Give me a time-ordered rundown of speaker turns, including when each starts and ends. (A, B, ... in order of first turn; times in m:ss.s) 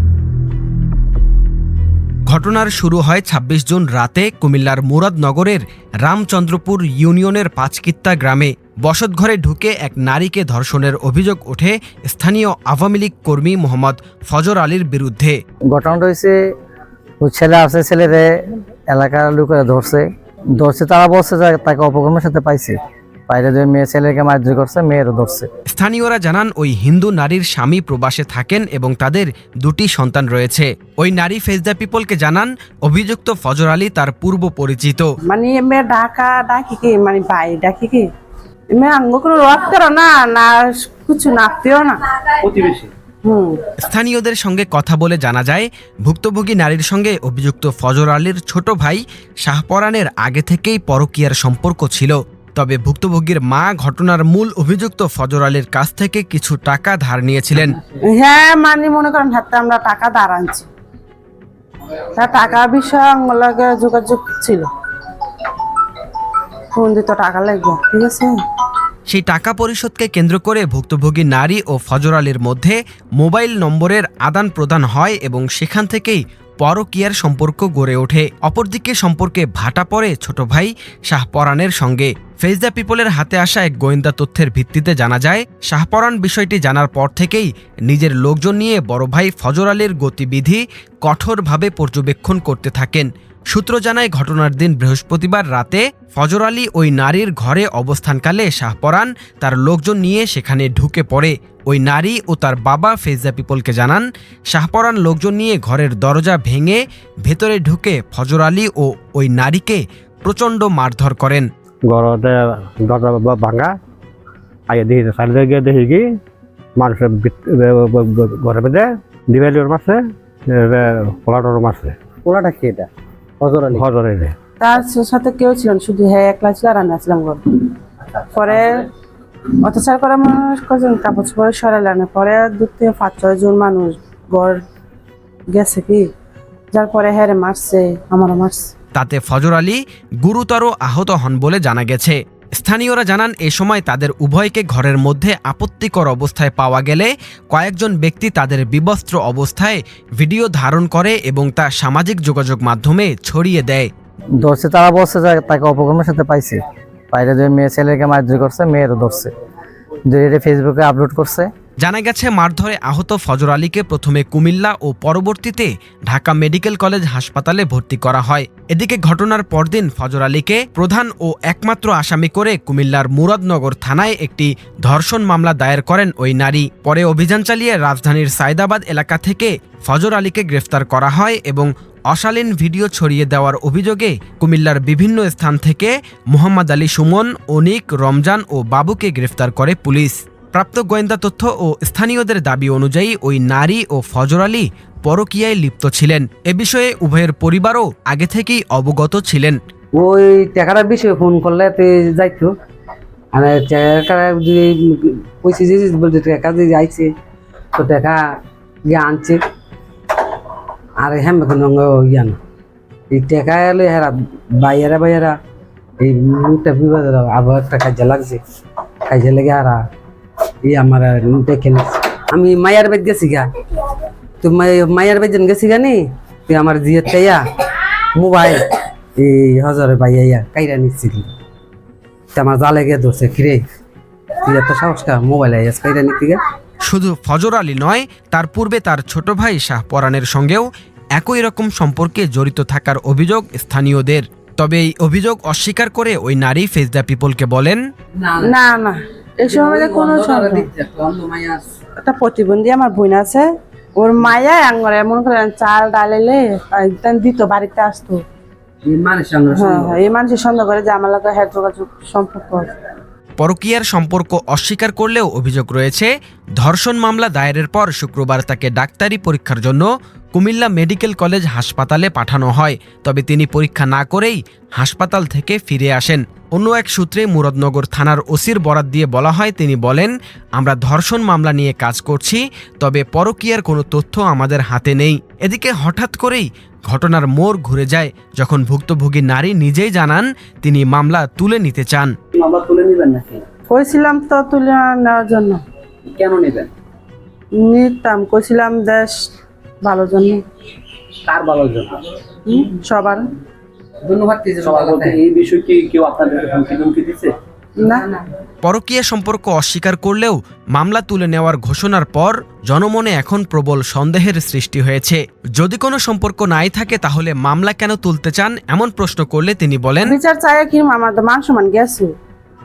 0:02.3-0:15.4 A
0:15.7-0:16.4 B
0:17.2-0:18.3 B
0:18.9-0:22.8 B
0:23.3-0:25.5 B
0:25.7-0:35.1 A
0:35.3-0:38.1 C
0:38.7-0:42.3 C
0:42.4-0:42.9 D
0:43.2-0:43.6 C
0:43.8-0:57.8 A
0:58.0-1:00.7 C
1:02.2-1:04.7 C
1:06.8-1:08.4 C
1:09.1-1:51.5 A
1:51.9-1:53.8 E
1:54.7-1:56.2 E
1:56.8-2:02.0 E
2:02.2-2:02.9 D
2:03.4-2:03.8 D
2:03.5-2:04.3 E
2:04.6-2:07.7 C
2:08.3-2:08.9 C
2:09.6-2:14.6 C
2:15.5-2:16.1 C
2:16.7-2:18.7 C
2:19.0-2:33.9 A
2:34.4-2:36.6 B
2:37.1-2:39.3 B
2:40.1-2:41.5 B
2:41.8-3:19.6 A
3:19.9-3:22.5 F
3:23.3-3:27.1 F
3:27.8-3:28.2 F
3:28.9-3:29.4 F
3:31.0-3:32.4 F
3:33.1-3:35.4 F
3:36.0-3:38.4 F
3:39.1-3:39.8 F
3:40.6-3:43.5 F
3:44.4-3:48.6 F
3:49.2-3:51.3 F
3:52.3-3:53.6 F
3:54.4-3:56.4 F
3:56.9-4:07.8 A
4:08.2-4:08.5 F
4:08.4-4:10.7 C
4:09.5-4:11.6 F
4:12.0-4:18.2 C
4:18.8-4:20.0 F
4:19.5-4:22.7 C
4:23.4-4:52.1 A
4:52.3-4:53.5 D
4:53.7-4:55.6 C
4:56.1-4:56.7 D
4:57.6-4:59.3 C
4:59.8-5:00.4 C
5:01.2-5:02.2 D
5:02.5-5:03.3 C
5:04.0-5:05.2 F
5:04.6-5:07.4 D
5:07.9-5:08.2 F
5:08.6-5:20.2 A
5:20.0-5:22.1 C